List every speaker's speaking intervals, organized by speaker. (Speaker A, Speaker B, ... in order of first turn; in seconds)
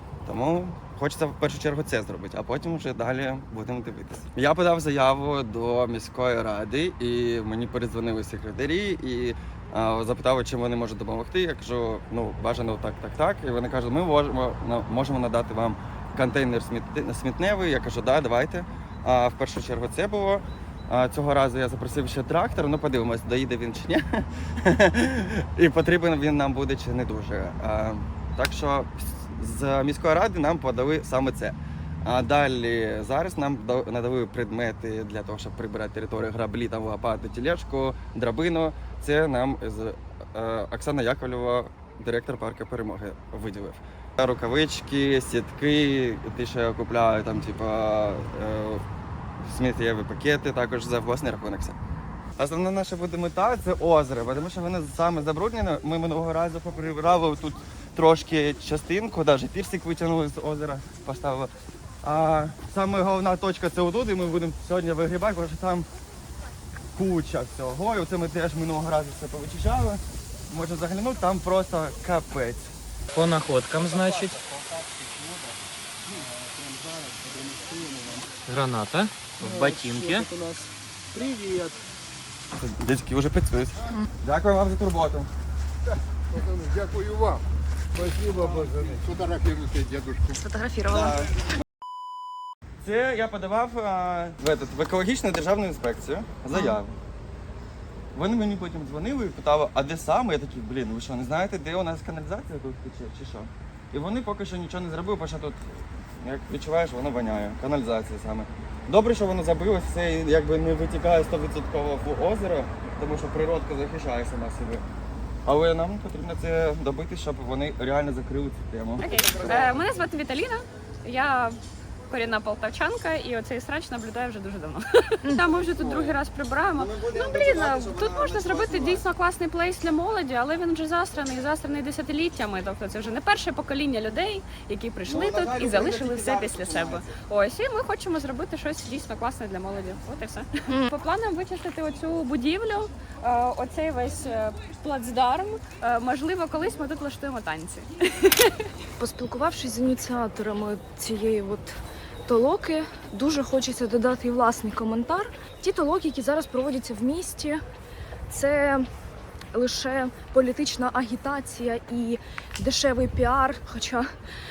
Speaker A: 0.2-48.8, 49.4-51.8, 52.4-61.5, 62.0-65.9, 67.0-72.7, 82.6-85.3, 90.9-91.4, 92.8-97.0, 98.1-114.8, 115.5-119.9, 125.6-126.2, 126.7-129.1, 135.1-137.2
Speaker B: 73.1-74.4, 78.5-80.3
Speaker C: 73.8-74.1, 76.6-77.9, 86.3-87.4, 88.0-90.3
Speaker D: 77.5-78.1, 79.4-81.8
Speaker E: 90.3-91.2, 96.5-96.8, 149.0-151.7, 152.3-157.6, 158.3-158.8, 159.5-164.1
Speaker F: 119.0-121.6, 122.1-148.7